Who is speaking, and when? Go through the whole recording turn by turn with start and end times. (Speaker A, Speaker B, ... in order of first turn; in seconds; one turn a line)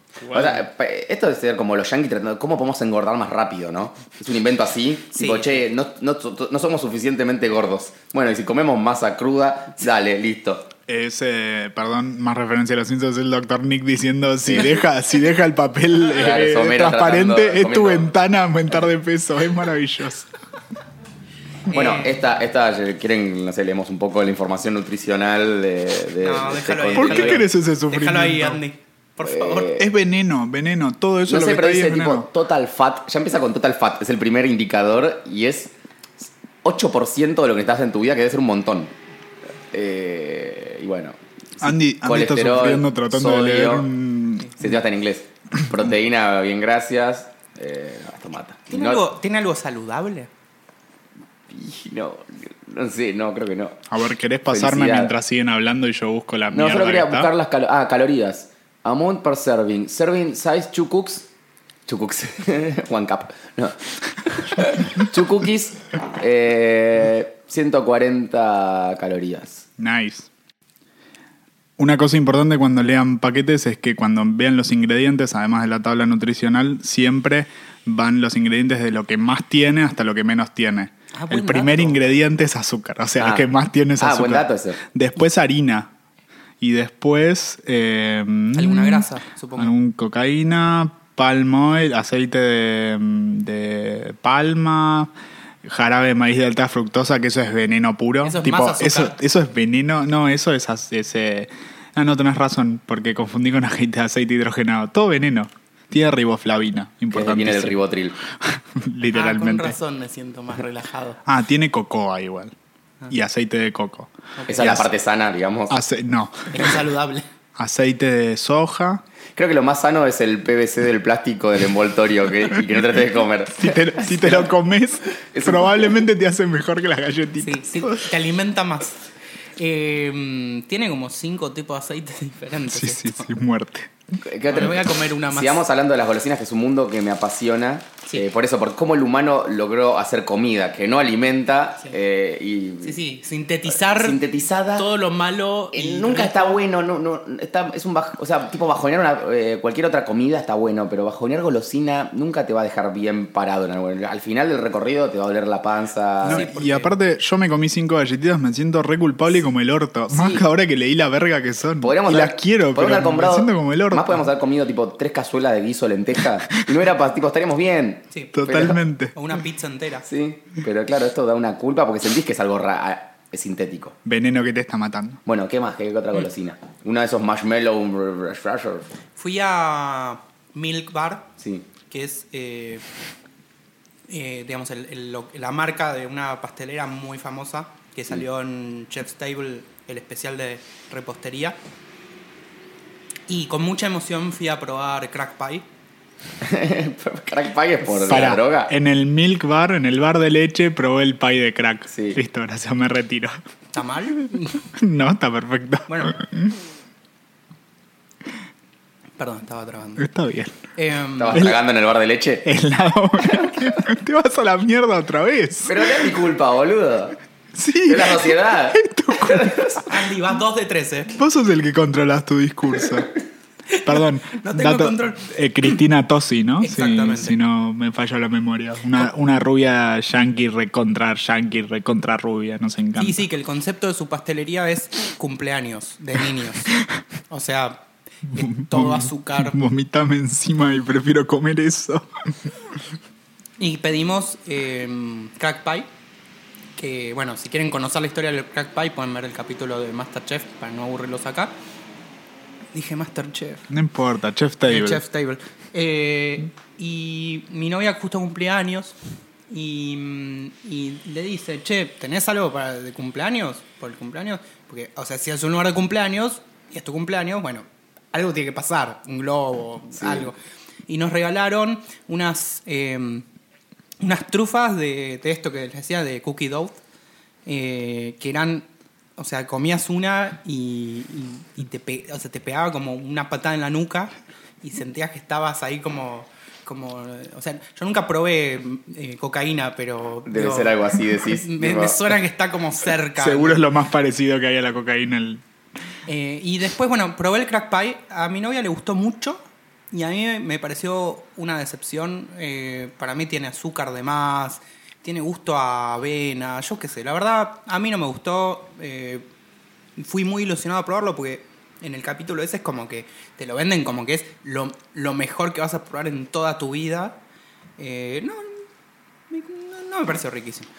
Speaker A: 0.2-0.6
Speaker B: 0.3-10.7
Speaker C: 5.1-5.6
Speaker A: 10.9-20.3
Speaker B: 14.4-14.9
Speaker B: 16.1-18.1
Speaker C: 21.7-22.2
Speaker B: 21.7-27.4
Speaker C: 26.2-29.8
Speaker A: 26.9-28.6
Speaker B: 29.2-29.9
Speaker A: 29.8-32.3
Speaker B: 31.3-35.7
Speaker B: 36.6-38.9
Speaker B: 39.7-43.9
Speaker A: 41.6-44.6
Speaker B: 44.6-49.0
Speaker C: 48.7-50.3
Speaker B: 51.5-53.8
Speaker A: 53.9-57.3
Speaker B: 54.5-55.1
Speaker B: 56.5-61.3
Speaker B: 61.9-69.7
Speaker A: 69.8-70.3
Speaker A: 71.8-85.9
Speaker C: 81.1-82.2
Speaker B: 83.2-83.5
Speaker B: 84.0-84.8
Speaker A: 86.6-95.1
Speaker C: 88.5-89.7
Speaker A: 95.6-107.8
Speaker C: 98.2-99.2
Speaker B: 107.1-108.2
Speaker A: 108.4-109.8
Speaker C: 109.1-111.2
Speaker A: 111.2-112.5
Speaker A: 113.1-114.9
Speaker C: 114.3-114.9
Speaker B: 114.5-115.8
Speaker A: 115.7-116.7
Speaker C: 116.5-117.3
Speaker A: 117.5-119.0
Speaker B: 119.3-124.5
Speaker A: 123.6-128.1
Speaker B: 125.3-126.0
Speaker C: 127.4-129.0
Speaker C: 129.6-133.3
Speaker A: 132.7-133.9
Speaker B: 134.2-143.0
Speaker C: 134.5-135.7
Speaker C: 142.8-144.2
Speaker B: 143.7-144.9
Speaker C: 144.7-146.6
Speaker B: 145.7-156.4
Speaker A: 156.2-164.2
Speaker C: 156.2-156.9
Speaker B: 160.1-160.4
Speaker B: 161.8-168.8
Speaker A: 168.3-169.2
Speaker C: 169.1-170.1
Speaker B: 170.0-173.9
Speaker A: 174.0-175.2
Speaker B: 175.2-178.9
Speaker C: 179.2-181.3
Speaker B: 181.4-181.7
Speaker C: 181.9-182.8
Speaker C: 184.1-191.6
Speaker C: 193.3-195.7
Speaker B: 196.4-198.7
Speaker A: 197.9-203.4
Speaker B: 201.9-202.2
Speaker C: 203.7-204.7
Speaker A: 204.8-206.5
Speaker C: 205.9-206.2
Speaker C: 209.2-210.1
Speaker A: 210.0-210.6
Speaker C: 210.7-211.4
Speaker B: 211.2-212.5
Speaker A: 212.4-216.0
Speaker B: 213.3-213.7
Speaker B: 215.6-217.2
Speaker A: 217.5-219.7
Speaker B: 217.8-219.9
Speaker C: 219.9-221.2
Speaker A: 221.2-223.2
Speaker C: 223.7-225.8
Speaker A: 223.7-233.2
Speaker C: 226.6-227.4
Speaker C: 233.0-236.8
Speaker C: 237.3-237.8
Speaker A: 238.3-242.5
Speaker C: 238.3-239.6
Speaker C: 243.6-245.9
Speaker C: 246.8-251.5
Speaker C: 252.7-253.7
Speaker A: 253.7-255.0
Speaker C: 254.7-258.9
Speaker C: 259.5-273.2
Speaker B: 269.9-270.3
Speaker C: 274.0-276.8
Speaker C: 277.4-293.6
Speaker B: 290.2-292.0
Speaker A: 293.2-295.4
Speaker C: 296.1-309.2
Speaker C: 310.0-317.2
Speaker C: 317.8-318.6
Speaker C: 319.3-320.7